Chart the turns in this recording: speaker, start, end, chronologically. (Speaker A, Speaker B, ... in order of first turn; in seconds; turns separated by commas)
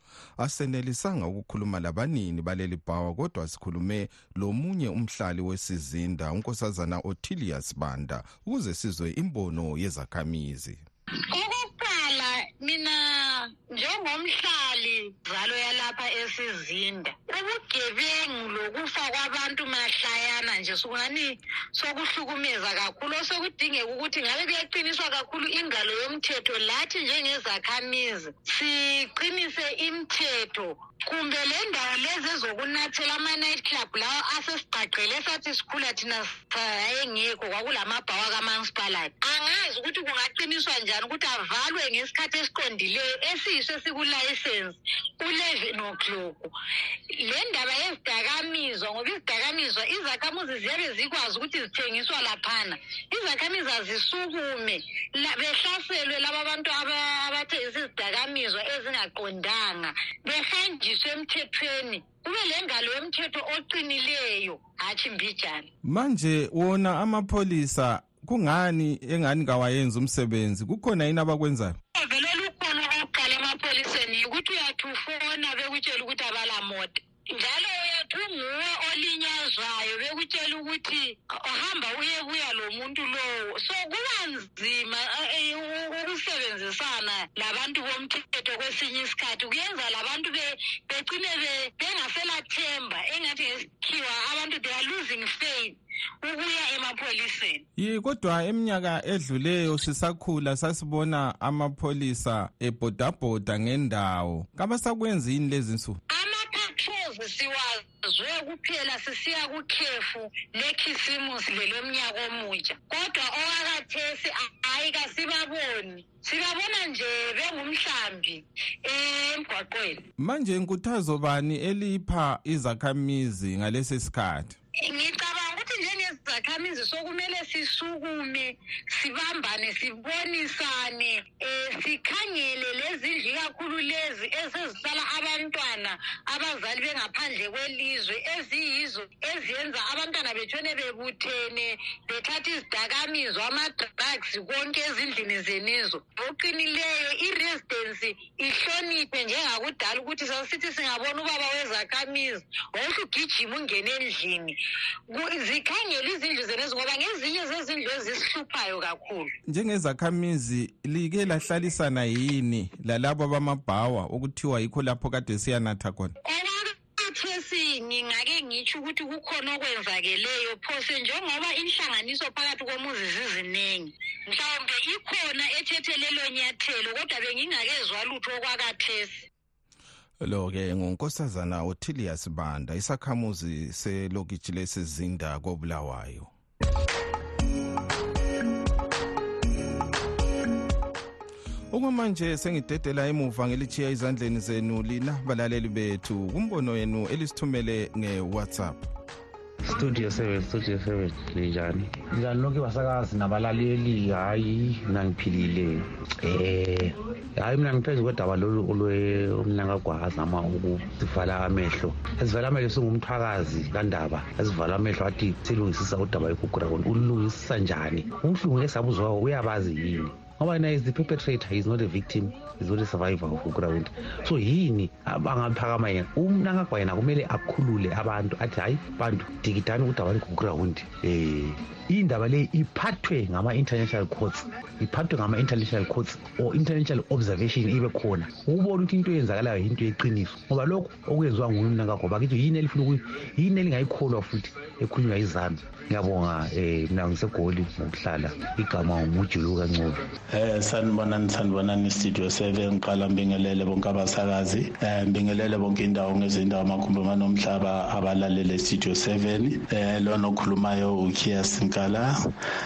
Speaker A: 0.4-10.8, Speaker B: 11.3-46.5, Speaker B: 47.1-65.7, Speaker A: 65.8-71.8, Speaker B: 72.0-97.6, Speaker A: 97.8-106.0, Speaker B: 106.1-120.0, Speaker A: 120.2-124.6, Speaker B: 124.8-154.6, Speaker B: 155.1-159.3, Speaker A: 159.5-166.2, Speaker B: 166.2-179.3, Speaker A: 180.2-186.3, Speaker A: 191.7-198.8, Speaker C: 199.6-250.1, Speaker D: 250.3-262.1